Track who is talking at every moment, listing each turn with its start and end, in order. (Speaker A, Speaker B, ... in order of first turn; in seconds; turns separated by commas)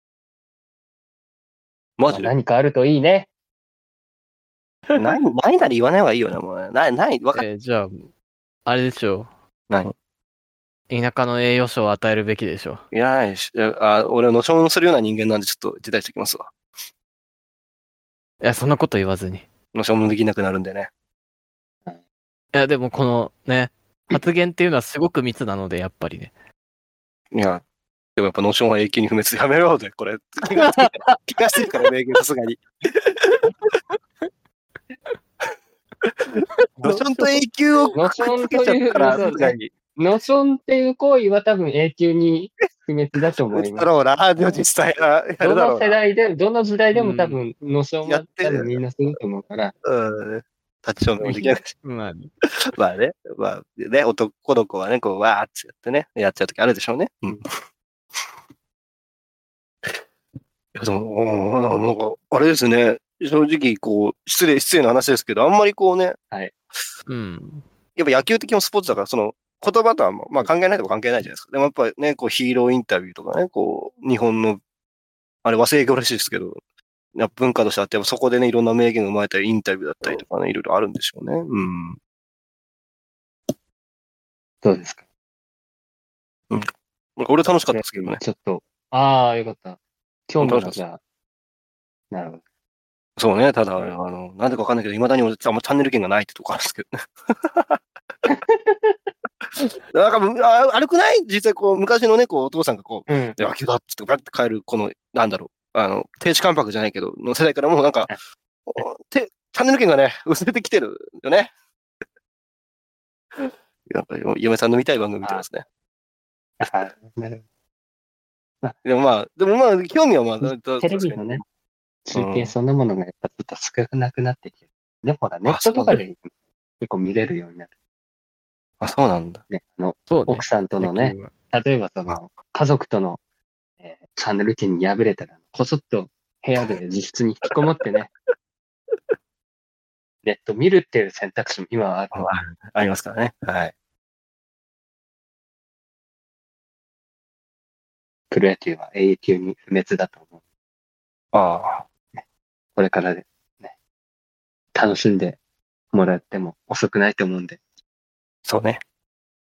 Speaker A: 2.0-2.3, Speaker B: 2.1-3.3, Speaker A: 4.9-7.4, Speaker C: 7.3-8.1, Speaker C: 8.7-9.3, Speaker A: 9.7-9.9, Speaker C: 10.9-12.8, Speaker A: 12.9-16.5, Speaker C: 18.4-19.4, Speaker A: 19.7-20.9, Speaker C: 22.5-26.3, Speaker A: 27.3-27.6, Speaker A: 28.1-33.5, Speaker C: 30.6-31.9, Speaker C: 36.7-37.9, Speaker A: 36.8-39.7, Speaker B: 37.9-43.9, Speaker C: 38.9-39.5, Speaker A: 43.5-46.0, Speaker B: 45.4-49.7, Speaker C: 46.9-47.4, Speaker A: 48.0-48.8, Speaker A: 49.9-51.7, Speaker C: 51.2-52.3, Speaker A: 52.6-57.4, Speaker A: 60.7-66.2, Speaker C: 67.1-67.6, Speaker A: 68.0-74.6, Speaker A: 75.4-76.6, Speaker A: 77.2-82.0, Speaker B: 84.6-85.0, Speaker A: 86.5-88.2, Speaker B: 87.7-91.0, Speaker A: 90.4-90.8, Speaker B: 92.1-92.4, Speaker A: 93.2-97.8, Speaker B: 98.3-99.0, Speaker A: 99.6-108.1, Speaker B: 103.1-103.4, Speaker A: 108.7-111.5, Speaker A: 113.4-115.6, Speaker B: 116.6-117.4, Speaker A: 118.8-121.4, Speaker B: 120.4-121.4, Speaker B: 122.1-126.3, Speaker A: 122.1-122.5, Speaker A: 125.5-126.0, Speaker B: 126.8-127.7, Speaker A: 128.8-129.4, Speaker B: 129.5-133.2, Speaker C: 130.1-131.3, Speaker B: 133.8-138.1, Speaker B: 140.2-142.3, Speaker A: 142.1-143.7, Speaker B: 148.3-150.2, Speaker A: 151.3-151.8, Speaker B: 152.8-153.7, Speaker B: 154.7-155.4, Speaker B: 155.9-157.6, Speaker A: 158.4-158.8